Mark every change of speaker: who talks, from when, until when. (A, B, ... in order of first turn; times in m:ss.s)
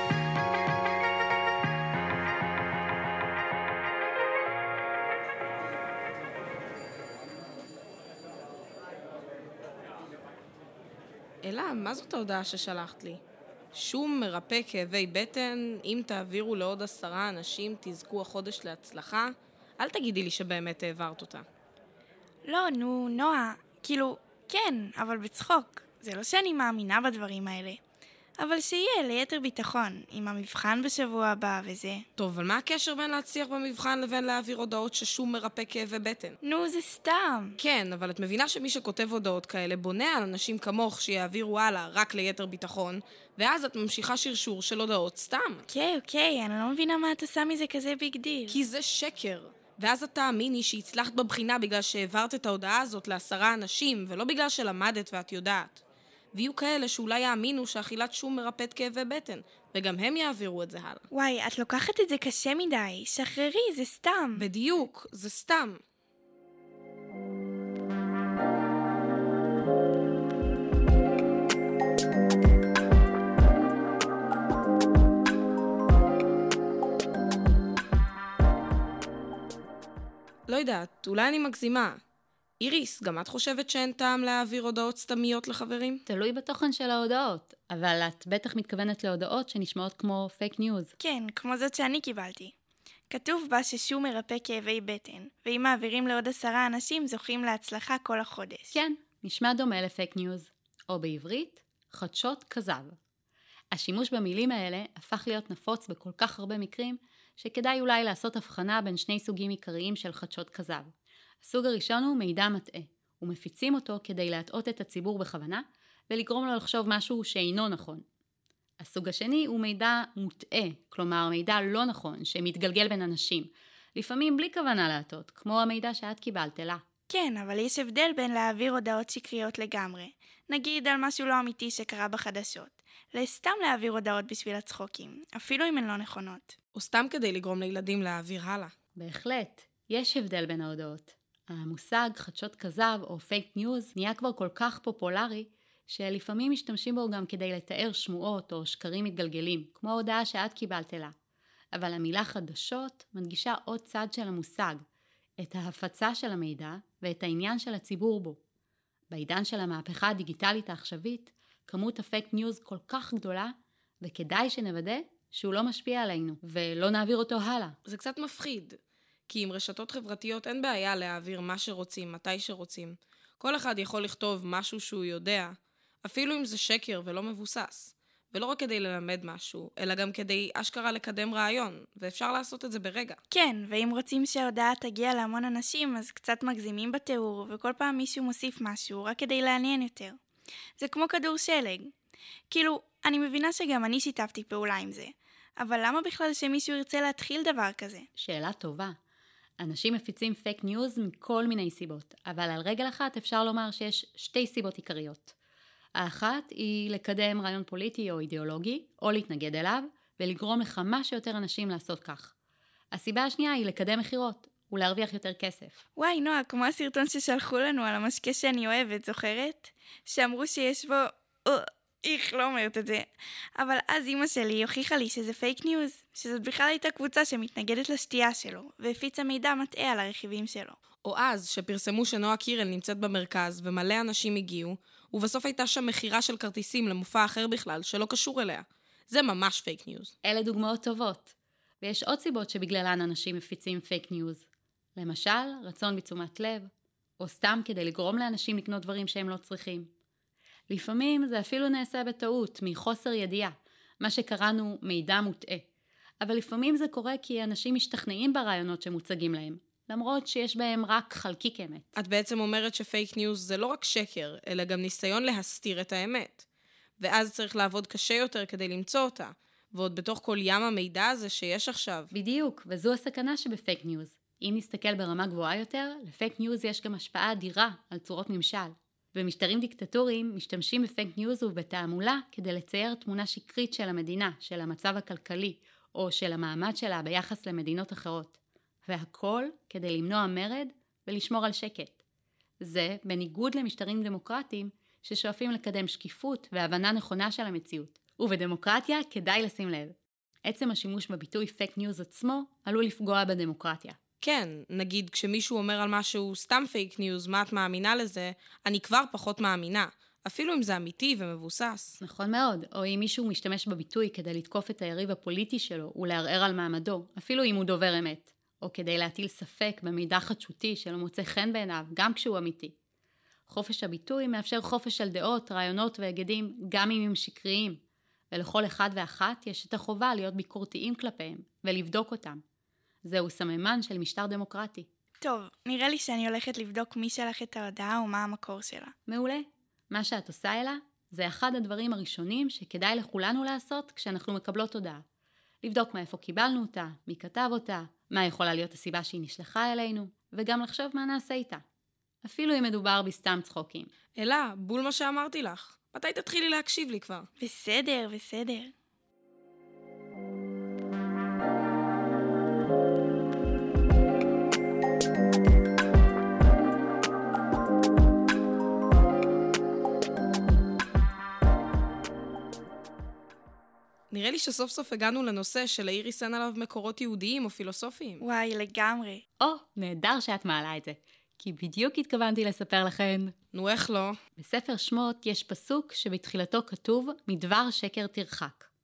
0:11.4-0:13.2 A
0:13.7-0:21.4 A
0:22.4-0:27.8 B
0:28.4-0:32.0 B
0:32.2-0:36.4 A
0:36.4-0:37.6 B
0:37.6-0:45.7 A
0:45.7-0:48.6 B
0:48.5-0:55.8 A
0:56.3-1:01.0 A
1:01.1-1:04.5 B
1:04.4-1:05.8 A
1:20.5-1:22.0 A
1:22.6-1:26.0 A
1:26.0-1:30.9 C
1:31.0-1:32.5 B
1:33.1-1:38.8 B
1:38.7-1:43.0 C
1:43.7-1:50.9 C
1:51.4-1:58.0 C
1:58.8-2:06.8 C
2:07.1-2:16.6 B
2:16.7-2:18.7 A
2:19.0-2:31.1 C
2:31.7-2:34.8 C
2:35.4-2:38.4 C
2:39.1-2:47.8 C
2:47.8-2:48.8 A
2:49.3-3:03.2 A
3:03.3-3:10.2 B
3:10.8-3:11.9 B
3:12.5-3:18.1 B
3:18.2-3:19.0 C
3:19.6-3:25.3 C
3:26.0-3:32.3 C
3:32.9-3:35.8 C
3:36.0-3:50.8 B
3:51.0-4:00.1 A
4:00.2-4:06.7 C
4:07.2-4:09.9 C
4:10.7-4:15.6 C
4:16.2-4:21.9 C
4:22.0-4:26.4 A
4:27.0-4:32.1 A
4:32.1-4:52.0 C
4:52.6-5:04.0 C
5:04.2-5:12.0 A
5:12.0-5:22.7 C
5:23.5-5:32.4 C
5:33.0-5:34.9 C
5:35.2-5:38.9 B
5:39.1-5:45.0 C
5:45.6-5:51.6 C
5:52.2-5:53.9 C
5:54.2-5:57.3 A
5:57.4-5:58.7 B
6:14.1-6:18.2 A
6:18.2-6:19.2 B
6:19.4-6:23.3 C
6:23.5-6:24.2 A
6:24.4-6:28.7 C